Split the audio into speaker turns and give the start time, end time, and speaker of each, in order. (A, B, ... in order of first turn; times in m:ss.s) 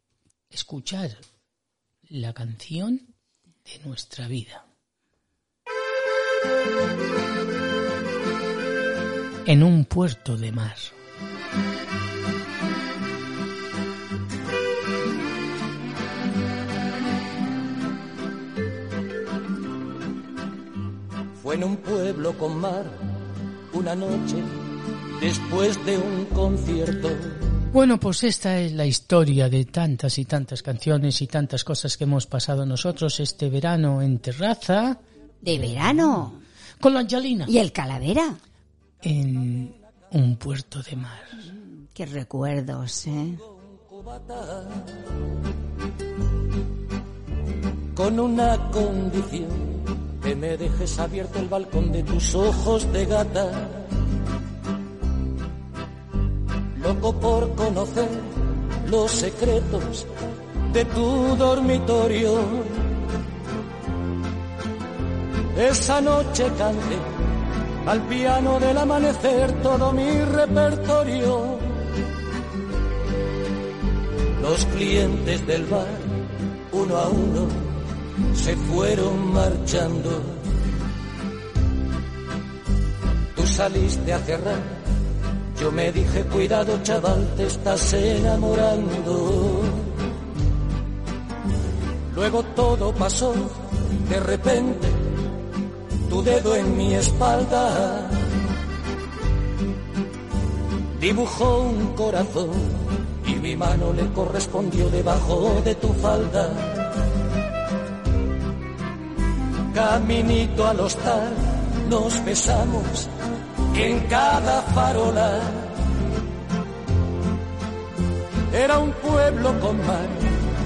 0:00.5-0:01.2 A
0:02.1-0:03.0 A
0:03.6-0:04.6 A
0:09.4-0:10.9 A
0:21.4-0:23.0 B
0:23.7-0:24.5 B
0:25.2-0:27.4 B
0:27.7-0:35.0 A
0:35.4-0:36.4 C
0:36.8-0:37.5 A
0:37.5-0:38.4 C
0:39.0-0:41.5 A
0:41.4-0:43.4 C
0:43.6-0:45.0 B
0:48.0-0:53.9 B
0:56.8-0:58.3 B
0:58.8-1:00.1 B
1:00.7-1:02.9 B
1:05.6-1:07.1 B
1:07.8-1:11.9 B
1:14.4-1:16.2 B
1:16.7-1:17.8 B
1:18.3-1:20.4 B
1:23.3-1:24.8 B
1:25.5-1:30.0 B
1:32.1-1:35.1 B
1:36.1-1:38.3 B
1:41.0-1:46.9 B
1:49.7-1:53.1 B
1:53.7-1:55.8 B
1:58.5-2:00.3 B